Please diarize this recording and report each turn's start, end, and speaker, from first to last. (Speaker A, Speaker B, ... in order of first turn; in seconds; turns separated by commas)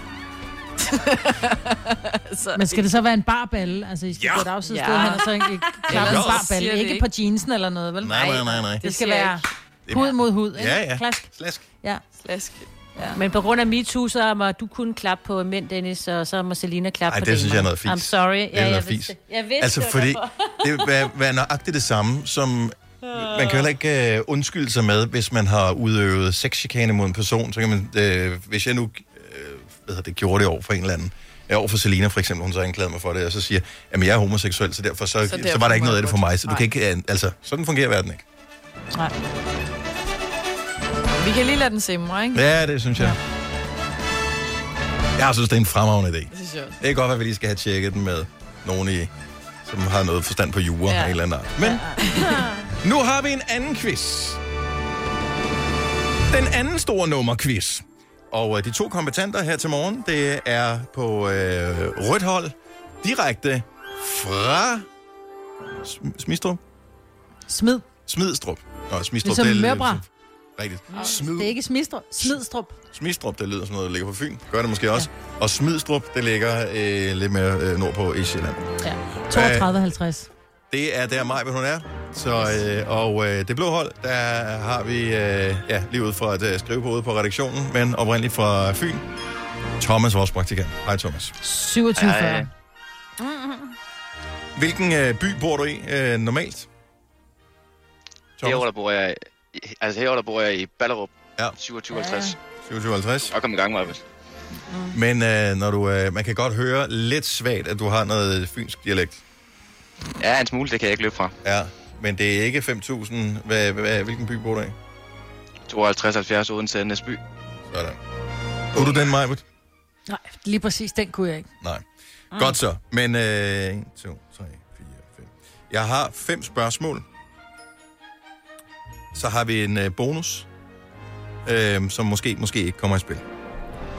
Speaker A: 0.8-3.0, Speaker B: 2.5-11.3, Speaker A: 4.7-7.0, Speaker C: 6.0-6.5, Speaker C: 8.0-8.8, Speaker A: 8.8-9.4, Speaker C: 9.9-11.7, Speaker A: 12.2-12.7, Speaker D: 13.1-20.7, Speaker C: 17.1-38.2, Speaker D: 23.1-23.6, Speaker A: 35.2-36.7, Speaker A: 41.2-42.5, Speaker C: 42.3-43.2, Speaker C: 45.2-49.1, Speaker A: 46.3-46.8, Speaker C: 49.6-52.0, Speaker A: 50.9-51.2, Speaker A: 52.0-52.4, Speaker C: 52.8-54.4, Speaker C: 56.3-64.9, Speaker C: 65.8-66.6, Speaker B: 67.5-67.8, Speaker C: 68.0-71.5, Speaker B: 69.2-70.0, Speaker B: 71.2-72.7, Speaker C: 72.9-78.6, Speaker B: 78.8-80.3, Speaker C: 79.3-79.7, Speaker C: 80.7-89.0, Speaker C: 89.8-91.3, Speaker B: 91.4-92.5, Speaker E: 91.9-92.5, Speaker D: 93.2-93.6, Speaker C: 94.5-96.7, Speaker C: 98.4-98.7, Speaker E: 98.4-102.4, Speaker B: 101.9-102.3, Speaker C: 102.6-103.3, Speaker E: 103.2-104.0, Speaker C: 104.9-109.2, Speaker E: 110.2-111.3, Speaker C: 111.4-114.8, Speaker E: 115.7-117.2, Speaker C: 117.7-118.0, Speaker E: 118.7-119.1, Speaker C: 118.7-119.4, Speaker B: 120.1-121.5, Speaker C: 121.6-127.0, Speaker C: 129.1-130.5, Speaker C: 131.4-133.2